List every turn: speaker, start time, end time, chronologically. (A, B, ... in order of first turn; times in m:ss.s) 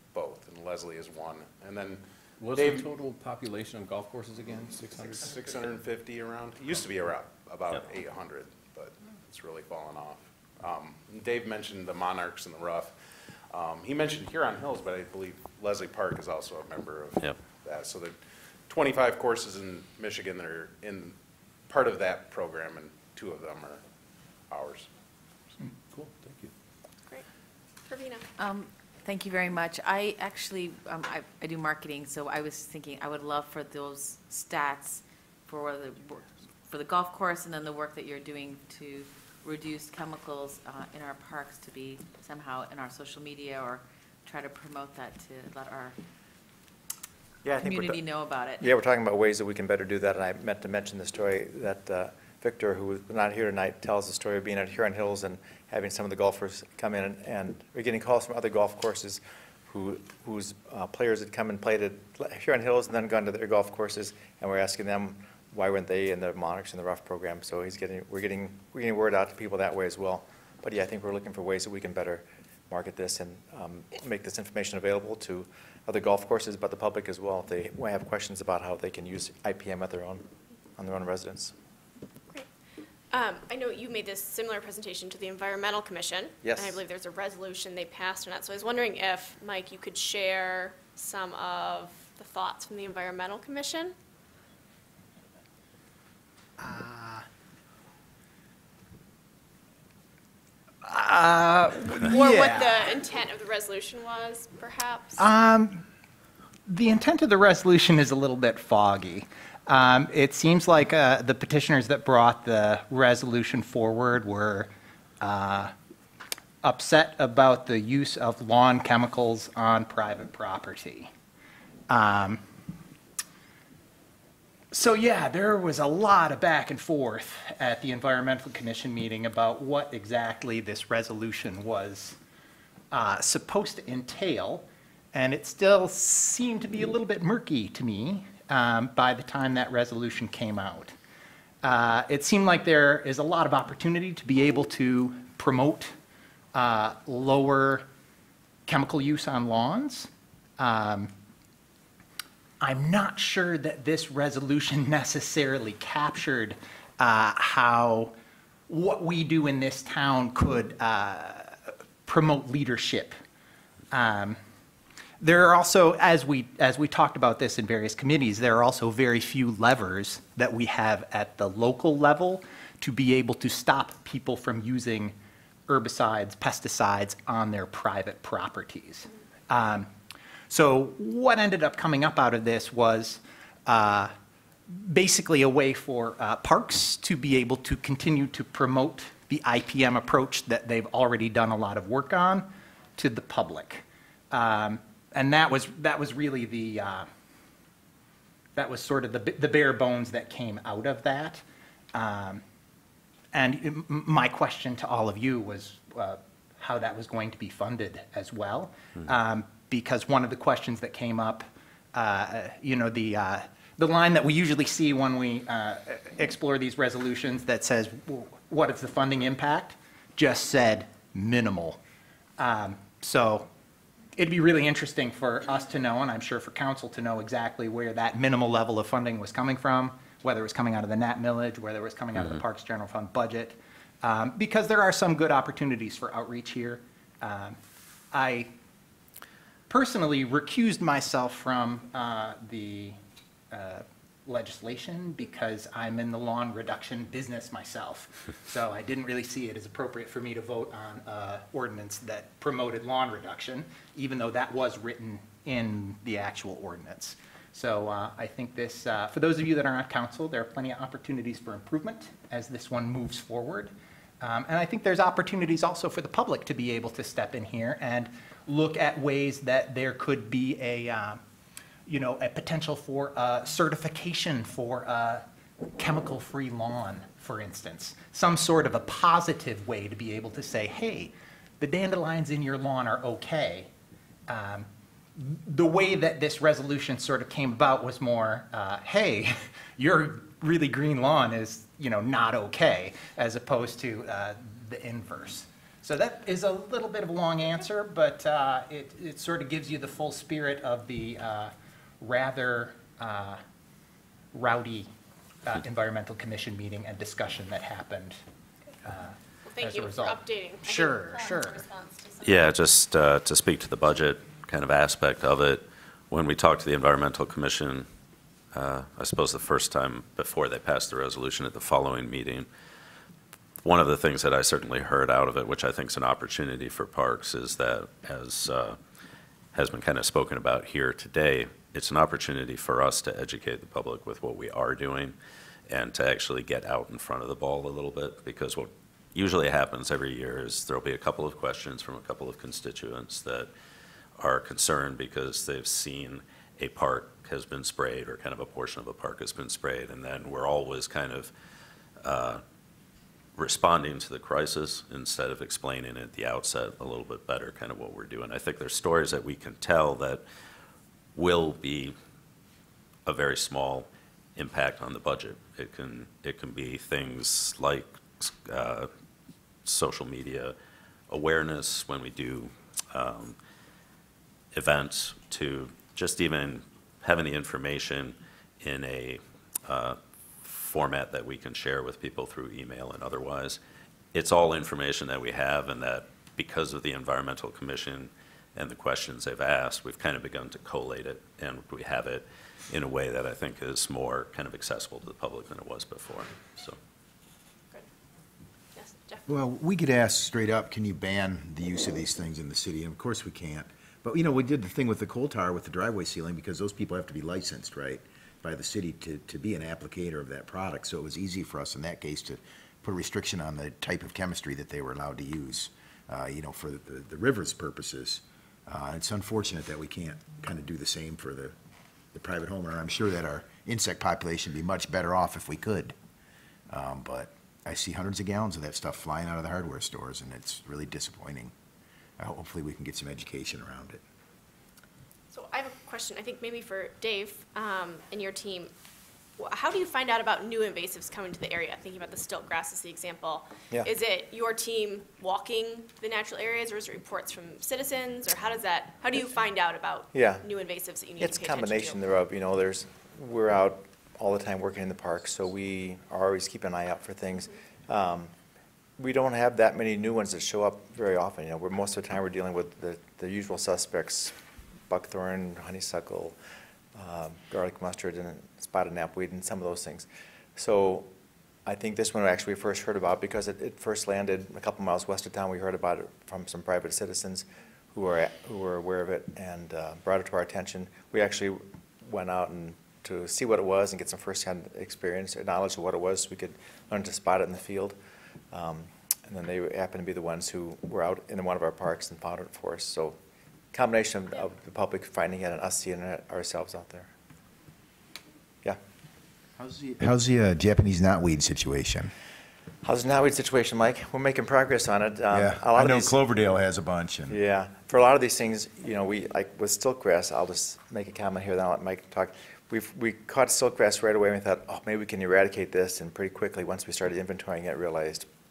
0:00.1-0:02.9 A
0:02.4-0:05.5 B
0:04.9-0:23.8 A
0:24.5-0:24.9 A
0:25.9-0:26.5 B
0:27.9-0:28.2 C
0:28.4-0:46.0 D
0:47.4-0:48.0 E
0:47.5-0:48.7 D
0:48.6-1:21.6 E
1:23.1-1:34.0 C
1:26.4-1:26.8 E
1:36.6-1:37.3 F
1:40.8-1:42.9 F
1:42.1-1:45.2 C
1:45.2-1:45.8 F
1:46.7-1:55.7 F
1:56.6-2:01.1 F
2:01.9-2:02.4 F
2:04.7-2:12.2 F
2:12.9-2:21.0 F
2:21.6-2:26.0 F
2:26.5-2:27.9 F
2:28.7-2:31.1 F
2:32.6-2:38.1 F
2:38.7-2:43.2 F
2:43.9-2:44.4 F
2:45.2-2:55.2 F
2:55.7-2:59.9 F
3:00.5-3:04.1 F
3:04.7-3:17.1 F
3:18.6-3:22.4 F
3:23.3-3:41.8 F
3:42.4-3:43.5 F
3:44.2-3:57.6 F
3:58.1-3:58.5 F
3:59.7-4:03.0 F
4:03.5-4:31.2 F
4:31.9-4:35.2 F
4:35.8-4:43.7 F
4:44.3-5:03.4 F
5:04.3-5:04.9 F
5:05.4-5:08.2 F
5:08.8-5:11.6 F
5:09.4-5:12.5 C
5:12.2-5:17.9 G
5:18.5-5:22.5 G
5:23.6-5:28.8 G
5:29.5-5:35.2 G
5:35.7-5:43.5 G
5:44.2-5:51.3 G
5:52.0-5:52.4 G
5:53.4-6:00.2 G
6:01.2-6:02.0 G
6:03.1-6:08.9 G
6:09.6-6:10.6 G
6:11.1-6:13.4 G
6:14.5-6:23.6 G
6:24.1-6:36.8 G
6:38.7-6:39.3 C
6:39.3-7:01.6 H
7:02.1-7:06.0 H
7:06.7-7:11.5 H
7:12.2-7:14.0 H
7:15.3-7:18.7 C
7:19.4-7:32.0 C
7:30.1-7:30.4 E
7:31.2-7:38.3 E
7:39.0-7:46.4 E
7:46.9-7:51.1 E
7:51.7-8:08.0 E
8:08.5-8:13.2 E
8:13.7-8:17.1 E
8:19.6-8:22.1 H
8:22.8-8:26.2 E
8:25.3-8:27.4 H
8:27.3-8:38.3 E